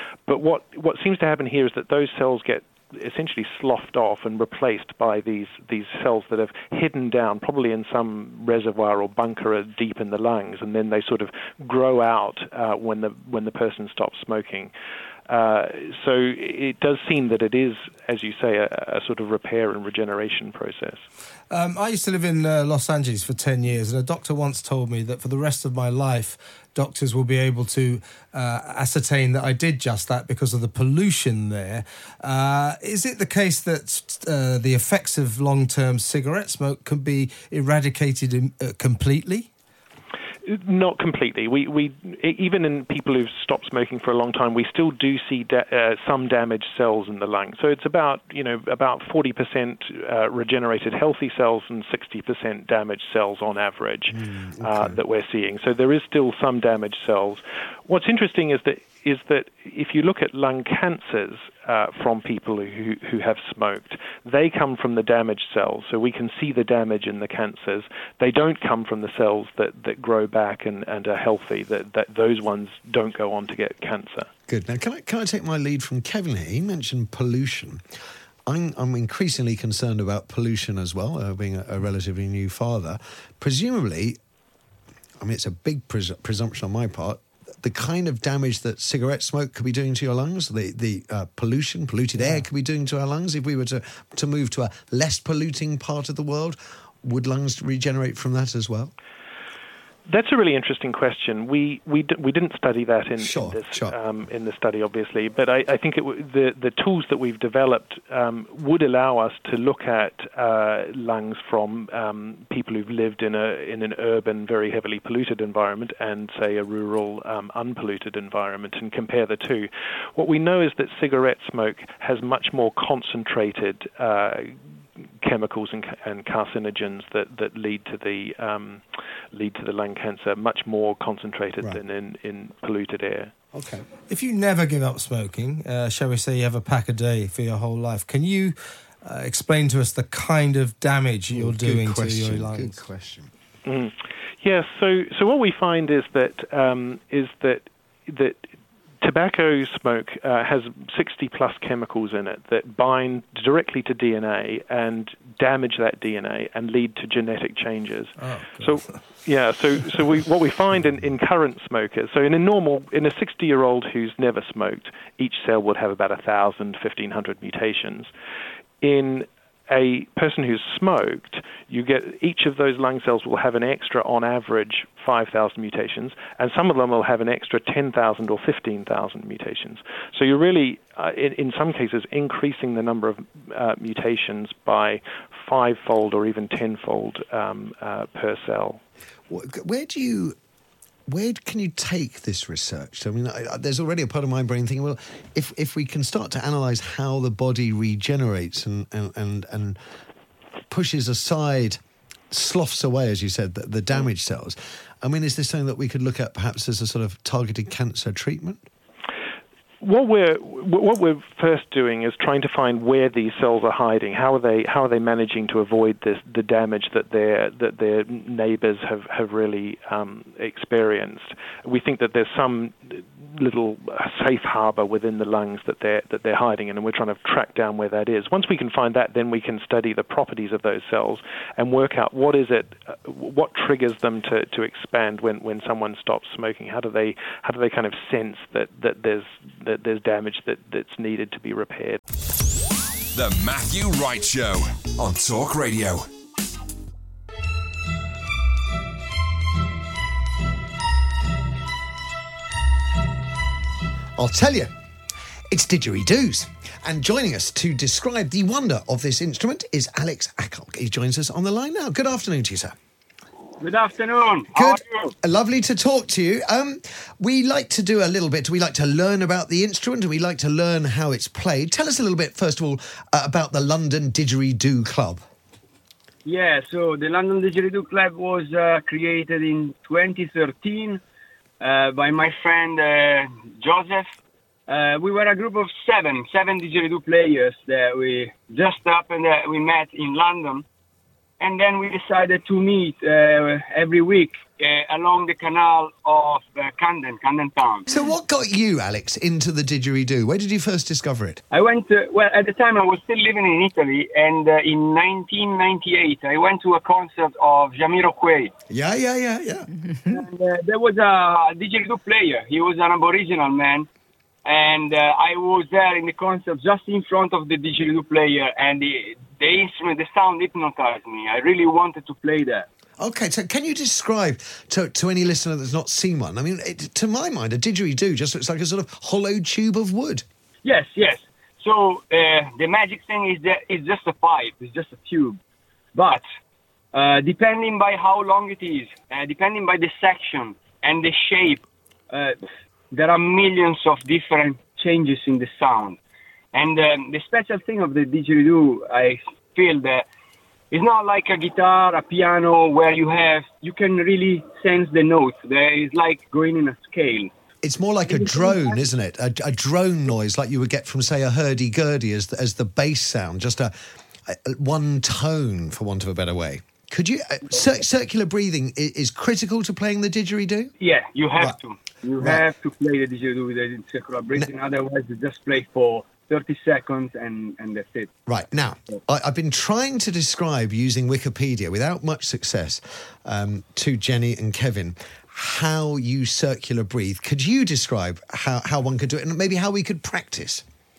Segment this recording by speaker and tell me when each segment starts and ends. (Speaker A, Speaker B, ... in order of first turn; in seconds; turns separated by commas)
Speaker A: 0.3-14.7, Speaker A: 15.3-21.1, Speaker B: 21.5-39.5, Speaker A: 40.5-74.3, Speaker C: 54.1-55.0, Speaker C: 74.5-77.8, Speaker C: 78.5-84.2, Speaker C: 85.2-98.9, Speaker A: 100.1-124.6, Speaker C: 103.2-104.0, Speaker A: 125.2-133.3, Speaker C: 133.5-133.8, Speaker B: 134.1-142.8, Speaker C: 141.3-143.3, Speaker A: 143.7-148.4, Speaker A: 149.0-168.1, Speaker B: 158.2-159.2, Speaker A: 168.8-188.8, Speaker C: 189.3-190.4, Speaker C: 191.1-199.8, Speaker C: 200.7-201.8, Speaker C: 202.3-208.6, Speaker A: 209.8-242.0, Speaker D: 243.2-246.1, Speaker C: 254.2-254.7, Speaker C: 255.5-262.7, Speaker E: 263.6-265.1, Speaker C: 264.6-275.2, Speaker E: 276.2-281.0, Speaker E: 281.6-284.1, Speaker E: 284.7-290.6, Speaker E: 291.4-297.9, Speaker C: 297.9-301.4, Speaker E: 301.5-308.5, Speaker C: 308.7-309.7, Speaker E: 310.1-313.9, Speaker E: 314.4-322.7, Speaker C: 323.0-330.2, Speaker E: 330.6-335.4, Speaker E: 335.9-336.2, Speaker E: 336.9-342.4, Speaker E: 342.9-346.0, Speaker E: 346.5-350.1, Speaker E: 350.7-357.3, Speaker C: 357.6-363.7, Speaker E: 358.1-358.8, Speaker C: 364.3-370.7, Speaker E: 370.8-378.1, Speaker C: 378.3-390.6